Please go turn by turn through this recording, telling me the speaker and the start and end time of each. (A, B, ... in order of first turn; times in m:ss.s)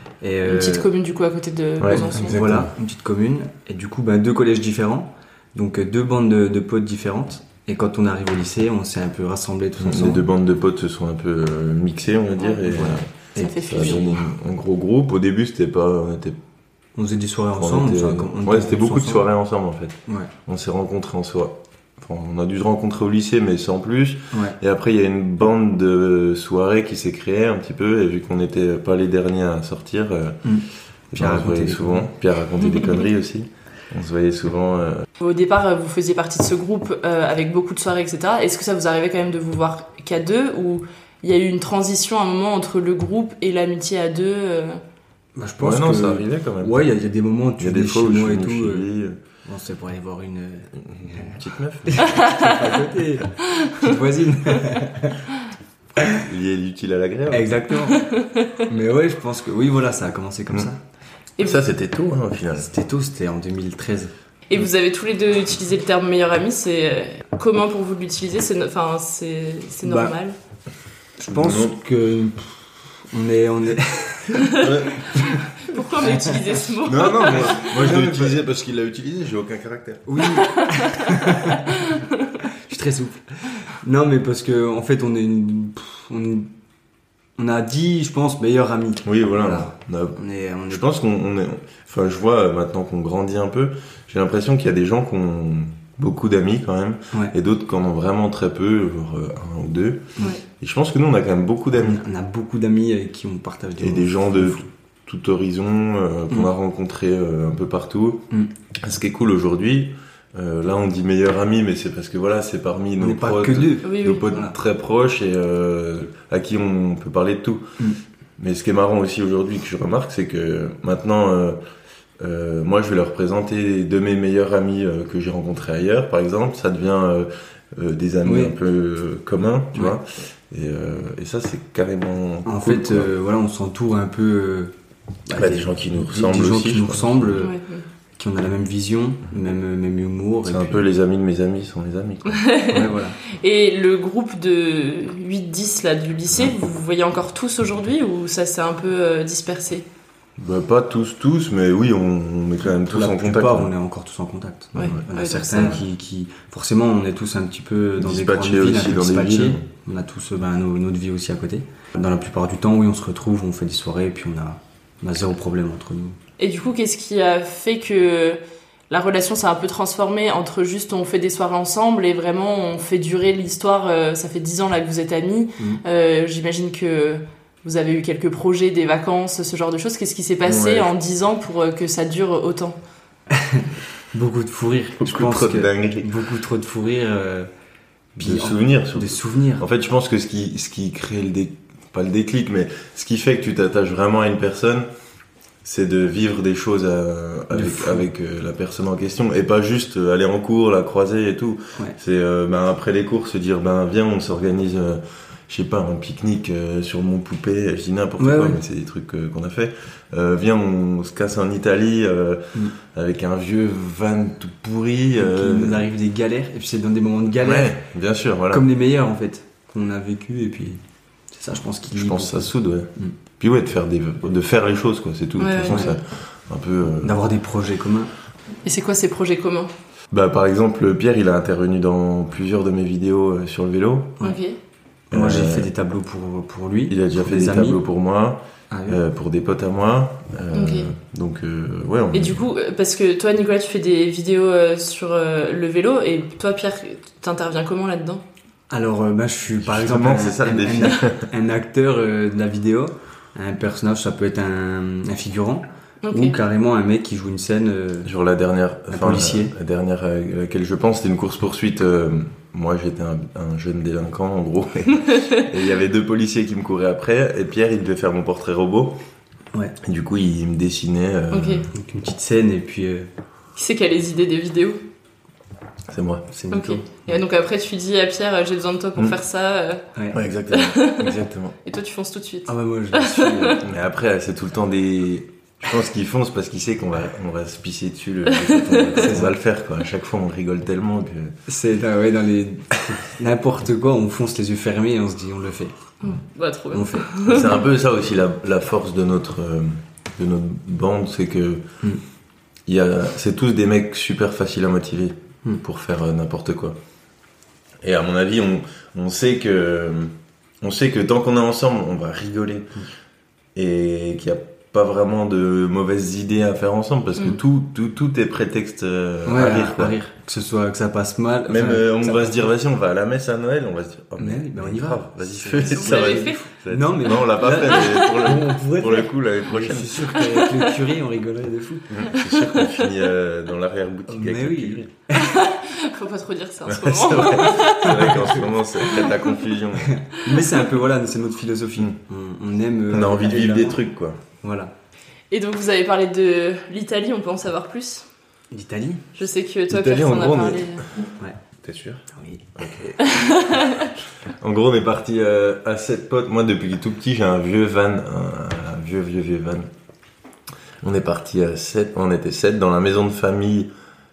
0:00.2-0:00.9 A
0:00.4-0:02.4 B
0:01.8-0:02.7 C
0:01.9-0:10.3 A
0:09.8-0:16.4 C
0:12.7-0:14.0 A
0:13.4-0:14.2 B
0:17.0-0:19.3 A
0:17.5-0:30.4 C
0:20.1-0:20.3 A
0:24.3-0:24.6 A
0:30.4-0:32.1 A
0:31.1-0:35.0 C
0:35.2-0:44.8 B
0:45.4-0:48.8 A
0:45.6-0:46.8 C
0:47.6-0:49.2 C
0:49.4-0:55.2 A
0:50.8-0:52.1 C
0:52.0-0:52.4 B
0:56.2-0:57.6 C
0:57.3-0:58.0 A
0:58.0-0:58.4 B
0:58.6-1:00.8 A
1:01.4-1:02.7 C
1:02.6-1:04.1 A
1:04.5-1:10.4 B
1:09.8-1:10.1 A
1:11.2-1:14.6 A
1:11.3-1:11.8 C
1:14.4-1:15.2 C
1:14.6-1:17.6 B
1:15.1-1:15.4 A
1:15.9-1:16.5 A
1:16.8-1:20.0 C
1:17.3-1:18.4 A
1:20.1-1:21.9 A
1:22.5-1:26.5 A
1:27.4-1:30.8 A
1:29.0-1:30.2 C
1:30.7-1:40.0 C
1:40.6-1:42.0 C
1:41.8-1:44.7 A
1:43.8-1:48.3 C
1:48.8-1:57.7 C
1:53.0-1:54.5 A
1:53.8-1:54.2 B
1:58.4-2:01.6 C
2:02.2-2:13.1 C
2:08.2-2:08.5 A
2:12.4-2:14.7 A
2:15.3-2:17.5 A
2:15.3-2:17.5 C
2:17.4-2:17.8 B
2:18.2-2:20.8 A
2:20.4-2:22.4 C
2:22.4-2:22.8 B
2:22.7-2:23.2 A
2:23.3-2:29.8 B
2:30.4-2:33.7 C
2:32.6-2:46.2 A
2:34.8-2:35.0 C
2:34.8-2:35.8 B
2:38.0-2:39.6 C
2:46.4-3:02.8 B
3:00.4-3:00.9 C
3:03.3-3:07.5 A
3:05.0-3:06.1 C
3:08.2-3:09.6 A
3:08.2-3:14.9 C
3:15.6-3:35.9 C
3:17.5-3:18.0 A
3:28.2-3:28.6 A
3:35.2-3:37.7 A
3:37.4-3:38.6 C
3:38.5-3:43.1 A
3:41.9-3:47.2 C
3:45.4-3:46.0 B
3:47.0-3:48.1 A
3:48.6-3:49.7 B
3:50.1-3:54.2 C
3:54.2-3:54.5 B
3:55.1-3:57.8 A
3:55.1-3:55.7 C
3:56.9-4:02.4 C
3:58.7-3:59.0 A
4:00.5-4:00.9 B
4:02.1-4:08.2 B
4:08.7-4:18.1 A
4:09.6-4:11.3 C
4:16.0-4:16.4 B
4:18.0-4:29.0 C
4:18.9-4:19.5 A
4:29.8-4:31.7 C
4:31.3-4:31.7 B
4:31.7-4:33.1 A
4:33.6-4:34.8 B
4:35.9-4:36.2 C
4:36.3-4:37.2 A
4:36.5-4:39.8 B
4:40.1-4:41.5 C
4:40.5-4:43.5 B
4:42.5-4:43.6 A
4:43.6-4:51.3 C
4:48.4-4:49.1 B
4:49.0-4:49.3 A
4:51.5-4:55.8 A
4:56.0-4:57.6 B
4:56.7-4:57.1 A
4:57.2-5:01.6 C
5:02.6-5:06.8 C
5:07.8-5:12.7 C
5:13.6-5:20.0 C
5:19.2-5:22.5 A
5:21.5-5:30.4 C
5:24.2-5:32.0 A
5:25.7-5:26.4 B
5:31.9-5:34.9 C
5:34.1-5:35.3 A
5:35.2-5:38.2 B
5:36.6-5:39.9 C
5:37.8-5:38.4 A
5:38.8-5:39.2 B
5:39.9-5:43.8 A
5:42.9-5:44.2 C
5:44.4-5:44.7 A
5:45.3-5:48.0 B
5:48.5-5:49.0 A
5:49.2-5:50.8 B
5:49.7-5:50.7 C
5:51.6-5:52.0 C
5:52.1-5:52.5 A
5:52.6-5:53.7 C
5:53.0-5:53.9 B
5:54.4-5:59.7 C
6:00.8-6:03.7 C